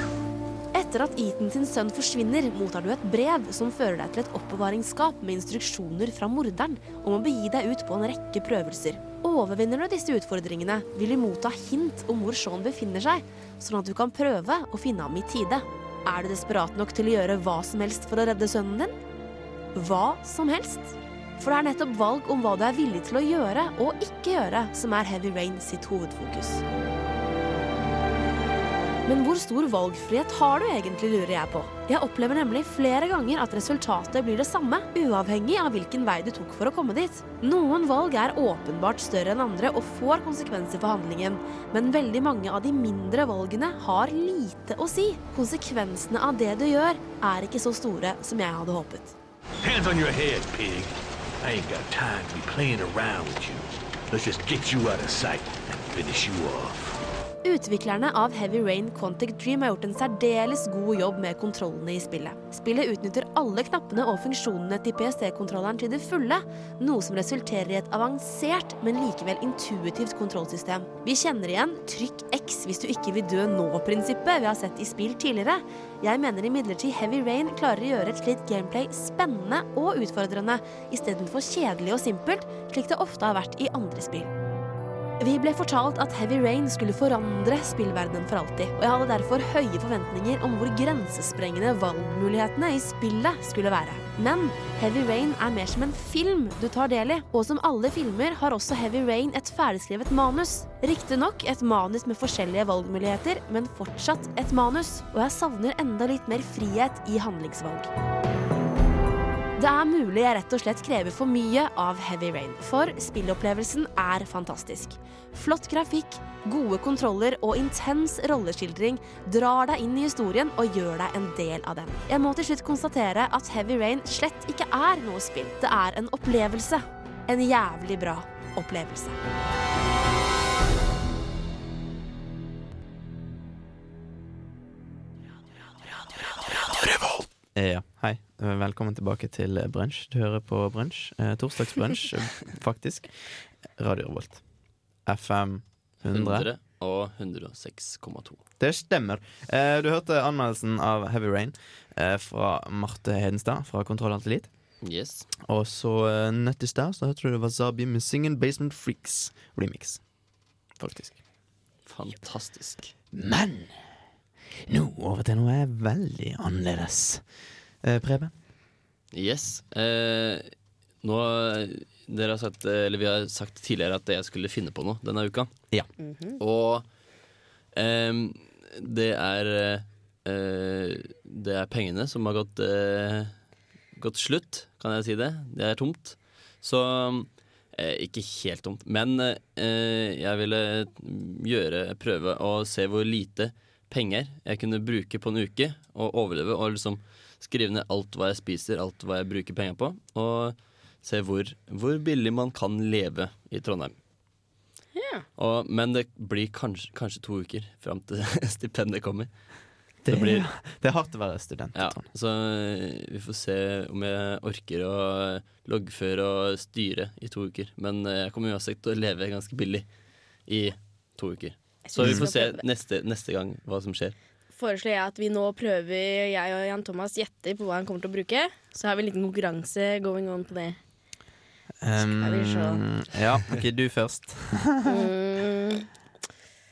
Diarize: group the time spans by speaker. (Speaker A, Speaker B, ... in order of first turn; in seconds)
Speaker A: 0.7-18.9, 19.8-26.6, 29.1-49.1, 57.4-84.3, 85.2-107.9, 109.6-129.2
Speaker B: 49.6-57.0
Speaker C: 137.5-143.1, 143.8-144.4, 145.1-146.5, 148.6-154.5, 155.4-160.0, 160.8-161.2, 163.1-163.7, 164.7-167.2, 167.8-168.3, 210.0-212.0, 222.0-222.3, 231.8-235.1
Speaker D: 146.1-148.4, 154.8-155.3, 161.9-162.9, 169.1-170.5, 171.0-175.5, 176.4-176.8, 177.8-183.3, 183.9-204.0, 205.4-209.3, 210.1-210.5, 211.8-219.9, 220.5-224.2
Speaker E: 176.0-176.4, 204.9-205.2, 221.9-222.6, 224.5-230.8, 232.0-232.8, 234.9-235.9